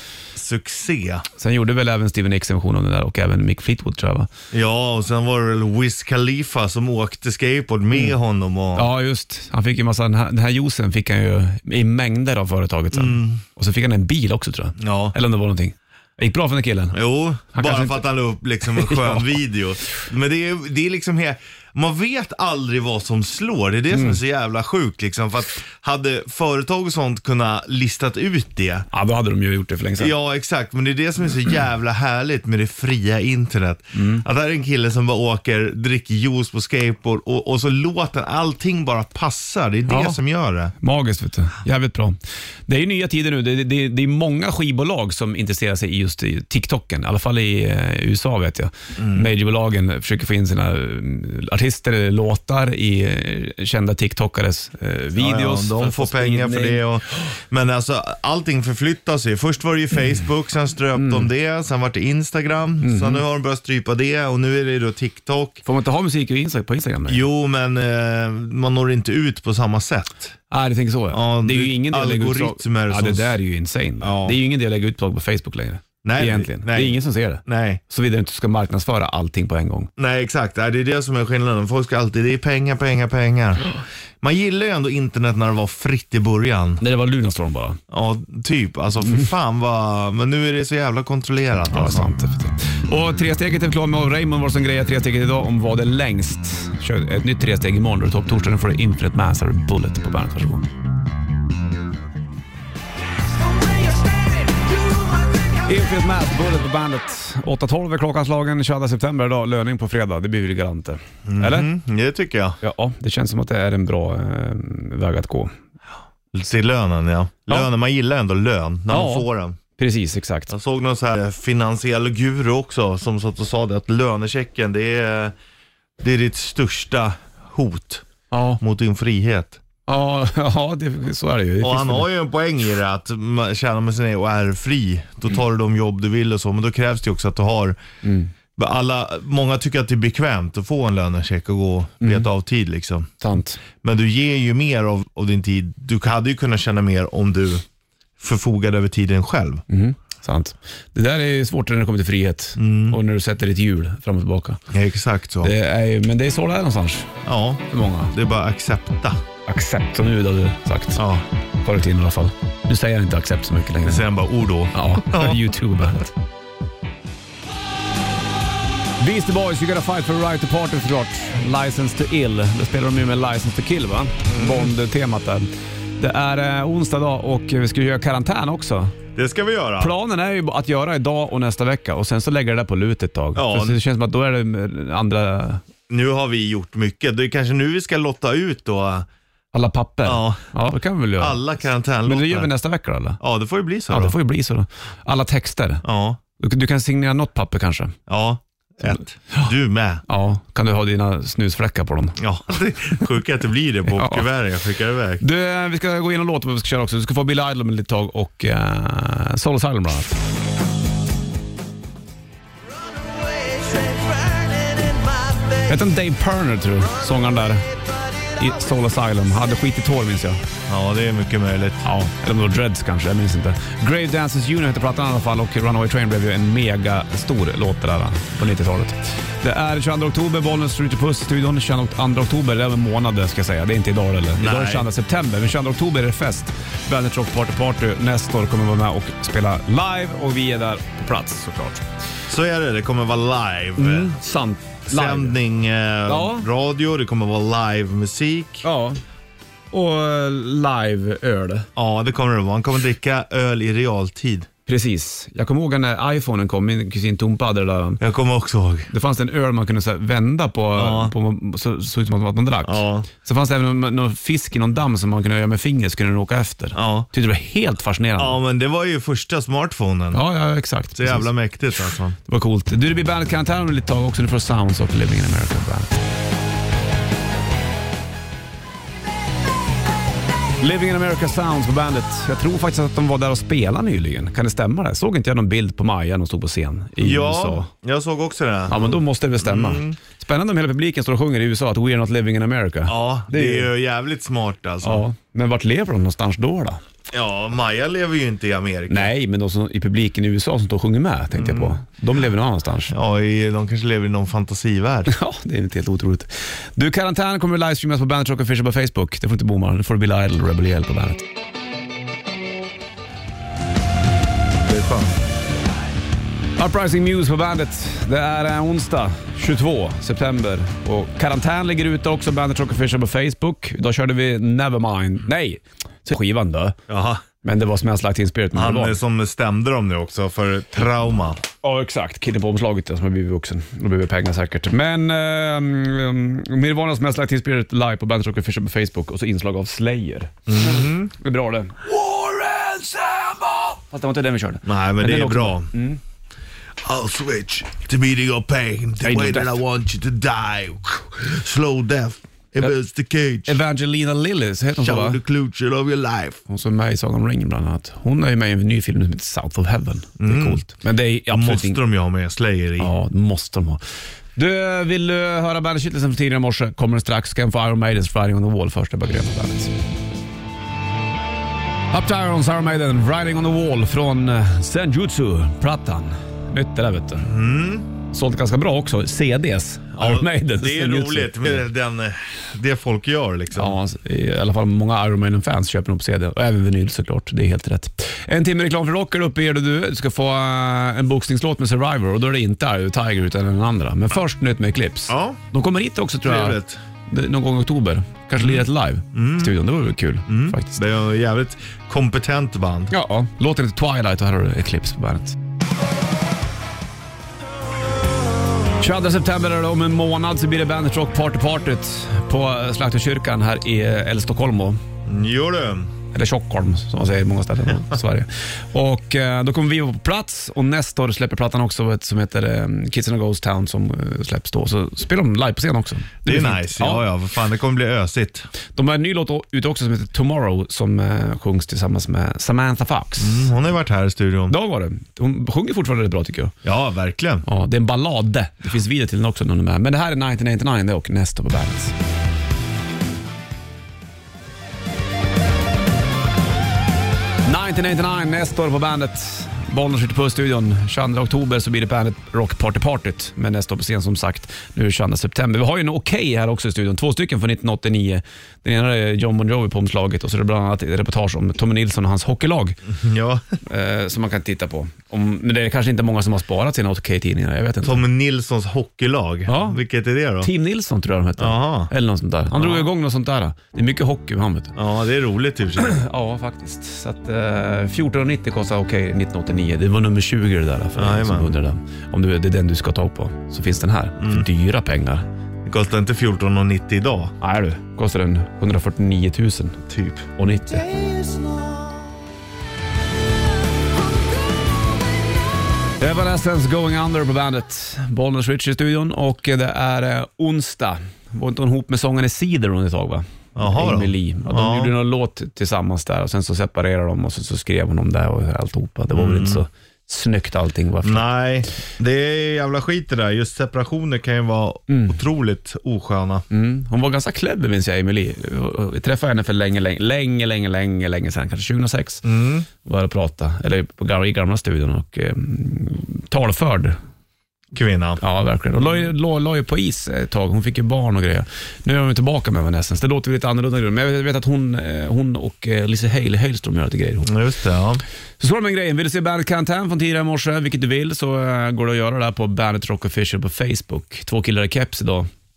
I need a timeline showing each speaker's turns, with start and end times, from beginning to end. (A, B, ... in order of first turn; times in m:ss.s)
0:00.4-0:01.3 A
0:01.4-0:04.3 B
0:04.5-0:08.9 A
0:08.8-0:17.0 B
0:12.9-0:13.4 A
0:14.8-0:15.2 A
0:16.9-0:28.9 A
0:17.5-0:18.0 B
0:18.7-0:19.3 B
0:23.9-0:24.2 B
0:28.9-0:30.1 B
0:30.0-0:40.7 A
0:34.0-0:34.2 B
0:39.9-0:40.2 B
0:40.8-0:56.8 B
0:49.0-0:49.3 A
0:55.2-1:05.6 A
1:01.0-1:01.3 B
1:02.8-1:03.2 B
1:05.6-1:07.2 B
1:07.1-1:10.4 A
1:10.5-1:19.9 B
1:11.1-1:13.4 A
1:14.0-1:14.4 A
1:16.0-1:17.8 A
1:20.0-1:26.8 A
1:26.8-1:27.8 B
1:27.9-1:32.1 A
1:31.7-1:40.7 B
1:45.6-1:51.7 B
1:51.3-1:52.6 A
1:52.6-1:55.5 B
1:56.3-1:59.6 A
1:58.9-2:00.5 B
2:00.5-2:05.3 A
2:06.0-2:08.0 A
2:08.3-2:08.6 B
2:08.6-2:09.6 A
2:09.9-2:12.1 B
2:11.6-2:17.8 A
2:18.0-2:18.3 B
2:18.6-2:23.1 A
2:22.0-2:22.3 B
2:23.2-2:23.6 B
2:23.7-2:27.6 A
2:28.2-2:29.6 A
2:29.7-2:34.6 B
2:32.6-2:33.0 A
2:34.7-2:35.5 A
2:35.4-2:37.1 B
2:37.2-2:39.2 A
2:37.7-2:38.1 B
2:39.5-2:41.0 B
2:41.0-2:41.2 A
2:41.6-2:44.1 B
2:43.8-2:45.4 A
2:44.7-2:46.1 B
2:49.0-2:59.0 B
2:54.3-2:54.7 A
2:59.2-3:00.0 A
2:59.8-3:05.6 B
3:03.4-3:03.8 A
3:05.9-3:09.1 A
3:09.5-3:11.4 B
3:10.0-3:10.5 A
3:11.2-3:12.5 A
3:12.1-3:13.2 B
3:13.2-3:14.2 A
3:13.9-3:15.8 B
3:15.8-3:16.2 A
3:16.4-3:18.0 B
3:18.1-3:20.0 A
3:18.9-3:19.5 B
3:20.1-3:22.2 B
3:22.2-3:25.2 A
3:24.0-3:24.3 B
3:25.2-3:30.2 B
3:33.3-3:35.0 A
3:35.7-3:37.7 B
3:38.3-3:40.4 B
3:40.7-3:41.9 A
3:41.8-4:01.8 B
3:54.4-3:54.9 A
4:02.3-4:04.2 A
4:03.8-4:05.4 B
4:04.9-4:08.6 A
4:06.1-4:06.5 B
4:08.6-4:09.0 B
4:09.7-4:11.7 B
4:11.8-4:14.5 A
4:14.7-4:18.0 B
4:18.0-4:18.9 A
4:18.9-4:28.4 B
4:20.7-4:21.1 A
4:22.7-4:23.1 A
4:26.8-4:27.1 A
4:28.2-4:30.2 A
4:30.1-4:31.3 B
4:31.0-4:32.2 A
4:32.2-4:36.0 B
4:40.6-4:47.7 B
4:47.0-4:50.0 A
4:48.7-4:53.7 B
4:52.9-4:55.0 A
4:54.8-4:56.8 B
4:57.1-4:59.1 A
4:58.9-5:02.9 B
5:01.4-5:01.8 A
5:02.9-5:05.1 A
5:05.1-5:11.2 B
5:14.7-5:15.2 A
5:16.6-5:26.8 B
5:26.9-5:27.2 A
5:27.4-5:29.0 B
5:28.5-5:31.4 A
5:31.6-5:46.0 B
5:40.5-5:41.1 A
5:44.6-5:45.7 A
5:46.8-5:53.6 A
5:49.0-5:49.6 B
5:53.5-5:55.2 B
5:54.8-5:56.4 A
5:56.5-6:01.8 B
6:00.2-6:00.6 A
6:01.3-6:02.9 A
6:02.8-6:03.8 B
6:04.4-6:09.7 B
6:11.9-6:17.3 B
6:17.2-6:17.9 A
6:18.1-6:21.7 B
6:20.0-6:23.8 A
6:23.6-6:40.8 B
6:35.1-6:35.4 A
6:36.2-6:36.8 A
6:38.4-6:39.6 A
6:40.3-6:42.9 A
6:42.9-6:45.4 B
6:48.8-6:54.8 B
6:55.1-6:55.9 A
6:56.1-7:07.0 B
7:06.3-7:08.5 A
7:08.8-7:13.5 B
7:13.2-7:14.6 A
7:14.5-7:16.6 B
7:16.6-7:17.5 A
7:17.4-7:22.0 B
7:27.4-7:42.8 B
7:42.9-7:43.4 A
7:43.6-7:48.1 B
7:47.8-7:50.5 A
7:49.5-7:49.8 B
7:50.4-7:54.8 B
7:51.4-7:51.9 A
7:52.6-7:52.9 A
7:54.8-7:56.0 A
7:55.8-8:05.3 B
8:01.0-8:01.5 A
8:04.2-8:04.5 A
8:05.6-8:07.3 A
8:07.4-8:09.8 B
8:09.9-8:10.3 A
8:10.4-8:10.9 B
8:10.8-8:11.7 A
8:16.0-8:31.3 B
8:23.6-8:24.9 A
8:29.1-8:29.6 A
8:31.0-8:36.4 A
8:34.9-8:35.2 B
8:36.5-8:42.3 B
8:42.2-8:42.7 A
8:42.8-8:47.0 B
8:47.7-8:48.2 A
8:48.2-8:57.3 B
8:57.2-8:58.0 A
8:58.4-9:05.3 B